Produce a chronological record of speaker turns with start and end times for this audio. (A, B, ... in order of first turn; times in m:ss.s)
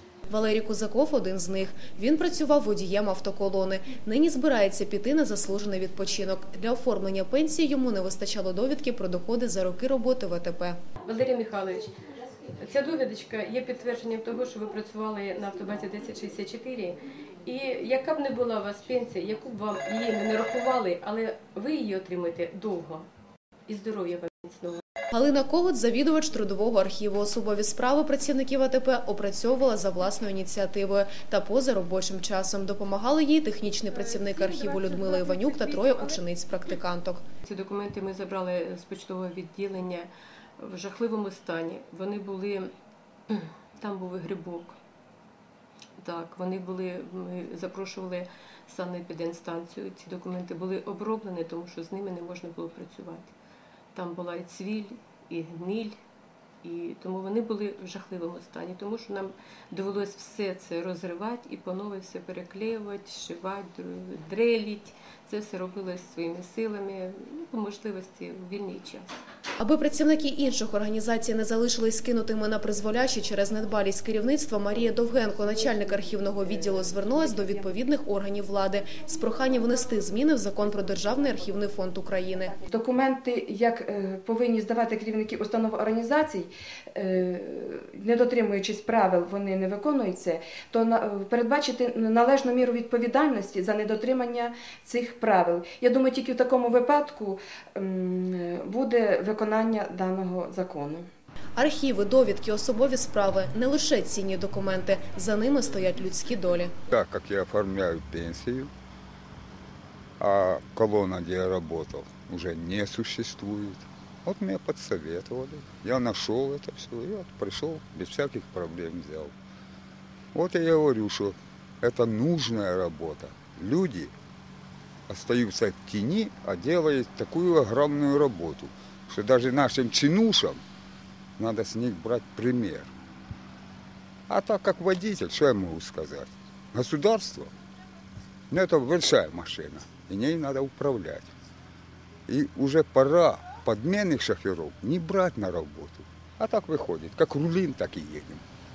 0:00.3-0:10.8 A
0:11.0-0:12.0 B
0:12.6-0:23.1 B
0:23.7-0:24.8 B
0:25.1-0:37.2 A
0:34.4-0:36.0 B
0:37.4-0:42.7 B
0:43.3-0:44.8 B
0:46.0-0:53.3 B
0:54.0-0:56.0 B
0:56.6-1:09.2 B
1:09.6-1:22.6 A
1:22.7-1:41.1 C
1:41.6-1:46.7 A
1:46.9-1:48.7 D
1:50.2-1:59.3 D
2:00.3-2:04.1 D
2:05.1-2:10.6 D
2:11.4-2:12.9 D
2:14.3-2:17.5 D
2:18.5-2:21.3 D
2:22.3-2:28.4 D